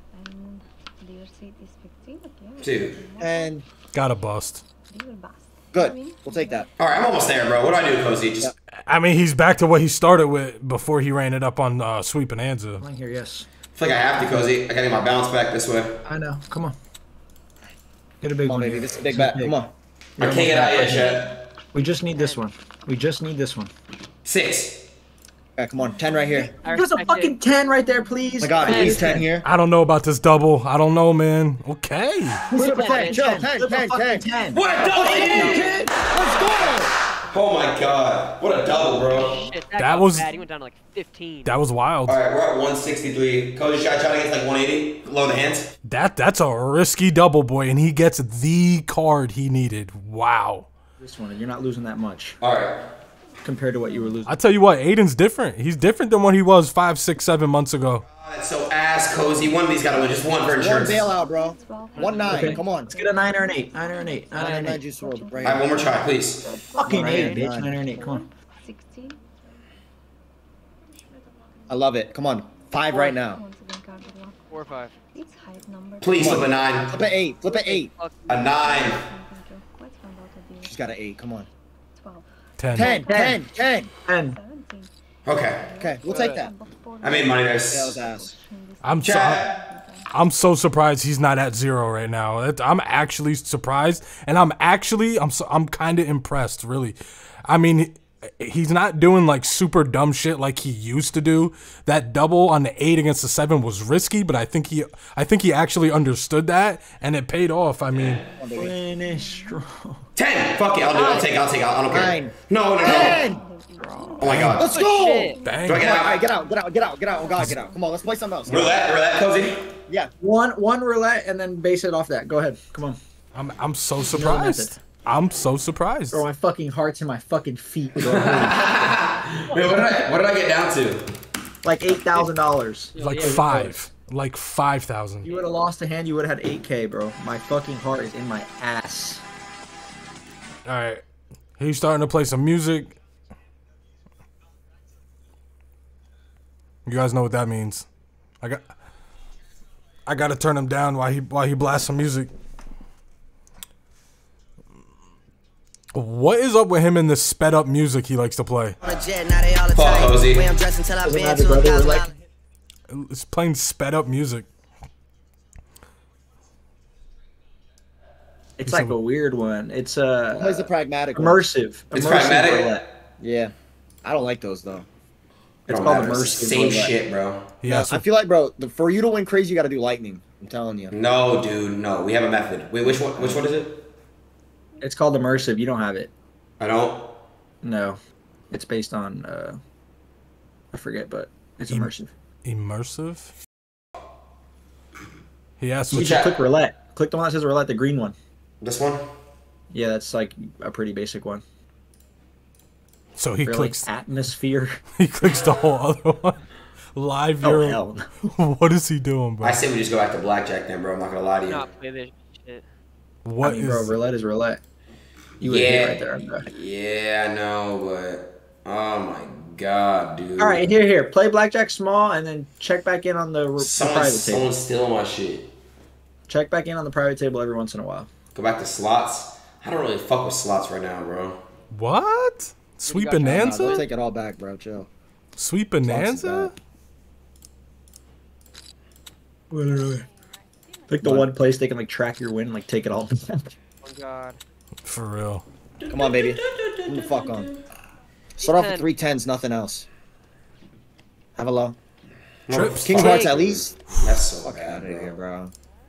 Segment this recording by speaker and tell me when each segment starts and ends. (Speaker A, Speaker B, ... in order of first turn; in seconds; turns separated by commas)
Speaker A: 0.1-3.3, Speaker B: 2.6-3.0, Speaker C: 3.2-3.6, Speaker D: 3.9-4.6, Speaker A: 4.9-6.2, Speaker C: 5.7-6.7, Speaker B: 6.8-8.5, Speaker D: 8.8-12.8, Speaker E: 12.8-13.5, Speaker B: 13.8-16.0, Speaker E: 16.1-16.8, Speaker E: 18.2-19.6, Speaker C: 18.4-19.7, Speaker E: 20.2-21.1, Speaker B: 20.2-21.4, Speaker E: 21.7-23.7, Speaker B: 24.2-24.8, Speaker C: 25.6-26.5, Speaker F: 26.6-27.4, Speaker E: 26.7-29.3, Speaker C: 28.4-29.5, Speaker F: 28.6-29.1, Speaker D: 29.4-32.4, Speaker F: 32.5-33.2, Speaker C: 32.5-34.2, Speaker E: 32.6-35.9, Speaker B: 34.5-36.1, Speaker F: 34.7-36.8, Speaker C: 34.9-36.9, Speaker A: 36.4-36.7, Speaker B: 37.3-39.4, Speaker F: 39.1-41.6, Speaker D: 39.8-40.3, Speaker D: 41.4-42.2, Speaker B: 42.0-45.7, Speaker D: 45.8-50.7, Speaker E: 51.0-52.4, Speaker B: 52.4-52.8, Speaker E: 53.4-54.4, Speaker D: 54.2-58.0, Speaker B: 58.1-61.1, Speaker C: 60.5-62.9, Speaker A: 61.4-63.0, Speaker F: 61.9-62.5, Speaker E: 62.3-64.8, Speaker A: 63.8-64.1, Speaker F: 64.3-64.8, Speaker C: 64.3-65.8, Speaker A: 65.3-69.2, Speaker B: 65.4-66.5, Speaker E: 66.8-68.3, Speaker C: 66.8-67.7, Speaker F: 66.9-67.4, Speaker C: 71.7-73.4, Speaker A: 72.9-74.4, Speaker F: 74.5-74.9, Speaker A: 75.1-76.5, Speaker B: 76.0-76.9, Speaker C: 76.2-77.9, Speaker F: 77.5-78.2, Speaker B: 78.3-79.0, Speaker A: 78.4-80.7, Speaker C: 80.6-81.5, Speaker D: 82.6-83.0, Speaker C: 82.7-83.9, Speaker E: 83.1-83.4, Speaker E: 84.0-84.4, Speaker A: 84.4-84.9, Speaker B: 85.2-85.7, Speaker C: 85.8-86.5, Speaker A: 85.8-87.4, Speaker F: 86.0-86.4, Speaker B: 87.0-88.0, Speaker C: 87.7-88.3, Speaker A: 88.2-89.0, Speaker D: 88.8-89.5, Speaker B: 89.0-89.5, Speaker A: 89.5-90.0, Speaker D: 90.1-108.3, Speaker B: 107.9-108.2, Speaker C: 108.2-108.8, Speaker E: 108.5-110.0, Speaker A: 109.2-109.5, Speaker B: 110.2-113.3, Speaker F: 110.9-111.3, Speaker C: 111.9-113.4, Speaker A: 112.8-114.5, Speaker B: 114.2-114.7, Speaker C: 114.2-118.8, Speaker D: 114.3-114.6, Speaker F: 114.7-115.4, Speaker D: 115.4-116.0, Speaker B: 115.6-116.2, Speaker A: 117.3-117.7, Speaker B: 118.5-119.7, Speaker E: 120.2-123.0, Speaker D: 123.3-126.2, Speaker E: 124.1-124.8, Speaker E: 126.1-128.9, Speaker B: 128.0-131.0, Speaker E: 131.6-133.8, Speaker F: 132.9-133.5, Speaker D: 133.0-135.3, Speaker E: 135.2-139.2, Speaker D: 140.6-141.0, Speaker D: 141.6-143.0, Speaker D: 146.8-147.8, Speaker D: 150.1-152.3, Speaker D: 155.9-158.8, Speaker G: 158.8-162.1, Speaker B: 159.7-160.5, Speaker E: 161.0-162.1, Speaker D: 162.9-164.5, Speaker E: 168.6-172.8, Speaker D: 168.7-168.9, Speaker C: 170.3-171.4, Speaker B: 171.9-172.8, Speaker C: 173.2-173.5, Speaker C: 174.0-174.9, Speaker E: 175.7-176.9, Speaker B: 175.7-177.5, Speaker D: 177.6-178.0, Speaker C: 177.6-180.9, Speaker B: 180.9-183.8, Speaker C: 183.2-183.4, Speaker E: 184.8-186.1, Speaker B: 186.6-187.1, Speaker E: 187.6-188.0, Speaker E: 188.5-189.6, Speaker E: 190.7-192.1, Speaker D: 192.4-193.3, Speaker D: 195.6-196.2, Speaker E: 195.9-198.2, Speaker B: 195.9-196.4, Speaker B: 198.6-199.1, Speaker E: 199.7-201.4, Speaker D: 203.2-203.9, Speaker E: 203.4-204.8, Speaker D: 205.0-206.4, Speaker D: 206.9-207.8, Speaker E: 207.4-208.3, Speaker D: 208.3-209.6, Speaker B: 209.4-211.7, Speaker F: 211.5-212.6, Speaker D: 213.2-214.0, Speaker E: 213.4-214.6, Speaker B: 215.4-220.7, Speaker E: 215.4-216.5, Speaker E: 220.4-224.5, Speaker B: 223.6-225.5, Speaker E: 226.3-228.1, Speaker B: 228.3-231.4, Speaker D: 231.7-233.8, Speaker F: 232.8-233.9, Speaker C: 233.2-234.9, Speaker D: 235.4-236.5, Speaker C: 235.8-236.5, Speaker E: 239.5-240.1, Speaker E: 240.9-243.5, Speaker C: 241.0-241.3, Speaker F: 243.8-244.4, Speaker D: 244.8-245.4, Speaker C: 245.9-247.5, Speaker B: 245.9-247.0, Speaker C: 248.4-249.8, Speaker F: 248.4-248.9, Speaker C: 251.3-251.8, Speaker B: 252.5-255.1, Speaker D: 252.5-253.3, Speaker C: 252.7-253.8, Speaker F: 253.0-253.3, Speaker C: 254.4-255.5